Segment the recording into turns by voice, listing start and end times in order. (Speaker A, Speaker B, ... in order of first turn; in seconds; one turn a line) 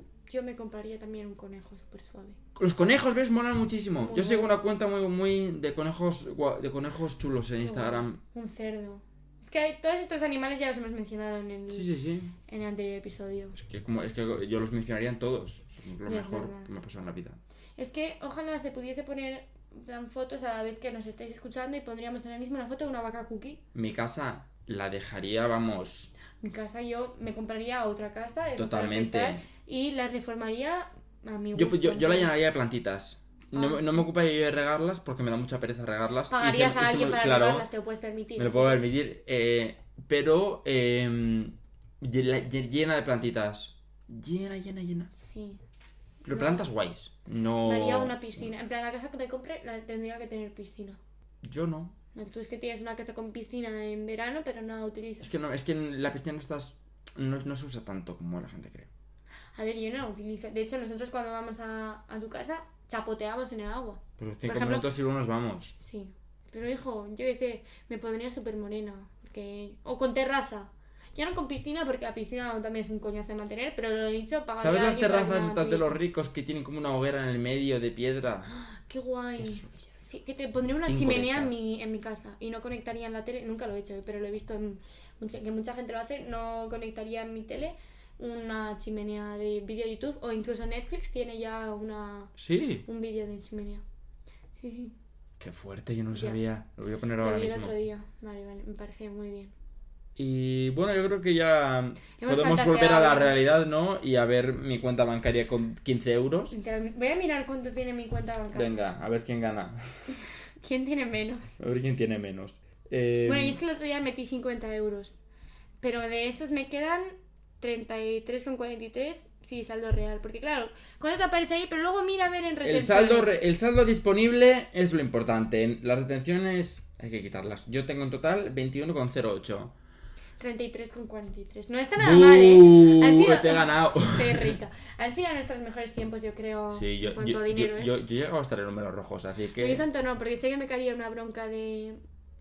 Speaker A: 0.3-2.4
Speaker B: 2.6-8.2
Speaker A: 4.0-4.6
Speaker A: 7.6-11.9
Speaker B: 11.7-12.3
Speaker A: 12.4-13.6
Speaker B: 13.6-17.4
Speaker A: 16.1-16.7
Speaker A: 17.8-23.6
Speaker B: 23.7-26.1
Speaker A: 26.4-32.3
Speaker B: 28.6-29.4
Speaker B: 31.5-37.6
Speaker A: 33.5-34.1
Speaker A: 36.3-38.9
Speaker B: 38.4-45.1
Speaker A: 45.1-45.6
Speaker B: 46.2-48.5
Speaker A: 46.3-46.7
Speaker A: 47.6-51.0
Speaker B: 51.4-51.9
Speaker A: 52.1-55.4
Speaker B: 55.2-58.9
Speaker A: 59.5-64.9
Speaker B: 64.2-65.7
Speaker A: 65.8-76.0
Speaker B: 74.6-78.5
Speaker A: 78.5-92.3
Speaker B: 79.4-79.9
Speaker B: 80.9-81.5
Speaker B: 92.4-92.8
Speaker A: 92.8-93.8
Speaker A: 94.5-95.0
Speaker B: 95.4-97.7
Speaker A: 96.1-96.4
Speaker A: 97.2-99.5
Speaker B: 100.2-106.6
Speaker A: 102.2-103.4
Speaker A: 106.5-108.8
Speaker B: 108.5-109.8
Speaker A: 110.6-111.6
Speaker B: 111.6-113.6
Speaker A: 113.2-115.2
Speaker A: 115.8-123.4
Speaker B: 122.6-129.7
Speaker A: 130.4-137.9
Speaker B: 132.0-134.6
Speaker B: 136.7-139.8
Speaker A: 139.6-142.0